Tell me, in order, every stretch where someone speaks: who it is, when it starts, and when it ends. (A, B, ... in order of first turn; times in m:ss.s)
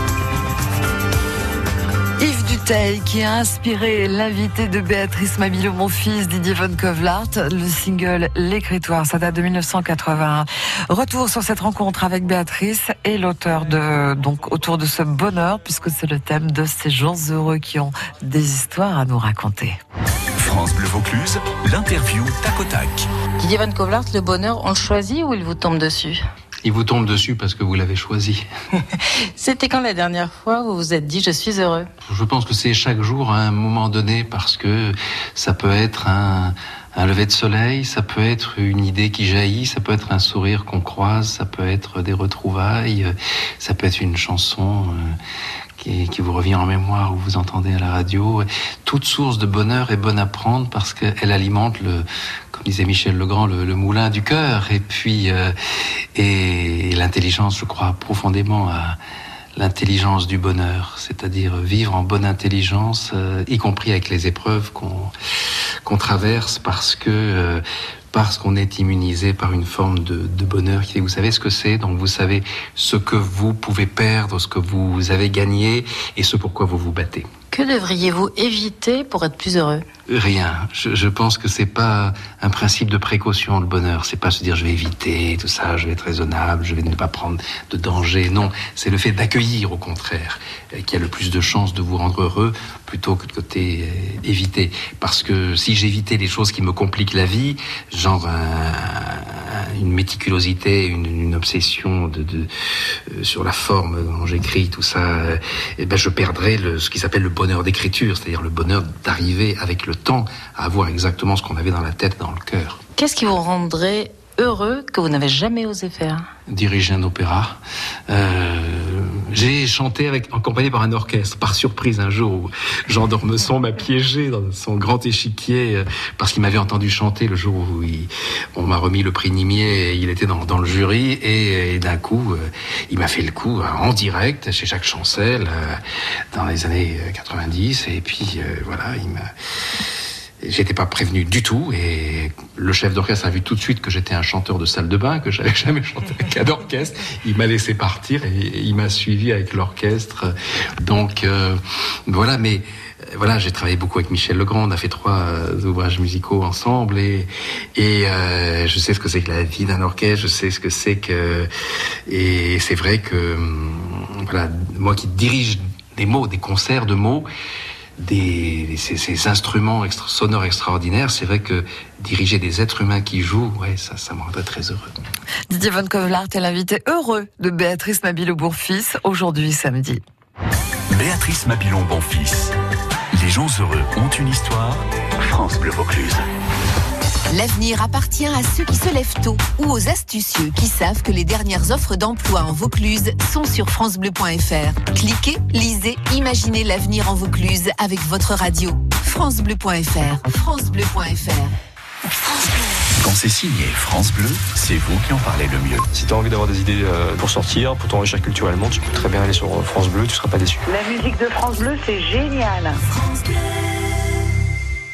0:02.2-0:19.8 A
0:20.4-0:23.1 B
0:23.4-0:26.2 C
0:26.6-0:28.4 D
0:29.4-0:31.9 C
0:32.0-0:45.2 D
0:45.8-0:55.6 D
0:56.2-0:59.0 D
0:59.6-1:05.1 D
1:05.8-1:17.3 D
1:17.5-1:19.8 C
1:20.1-1:42.5 D
1:43.1-1:52.8 D
1:53.0-1:56.2 C
1:56.5-2:15.8 D
2:16.3-2:19.3 D
2:20.4-2:32.6 D
2:33.2-2:41.5 D
2:42.1-2:47.3 D
2:48.0-2:54.9 D
2:55.5-3:00.0 A
3:00.9-3:02.5 B
3:03.1-3:06.3 B
3:07.3-3:21.5 E
3:23.0-3:25.8 B
3:25.9-3:30.6 F
3:30.6-3:32.8 G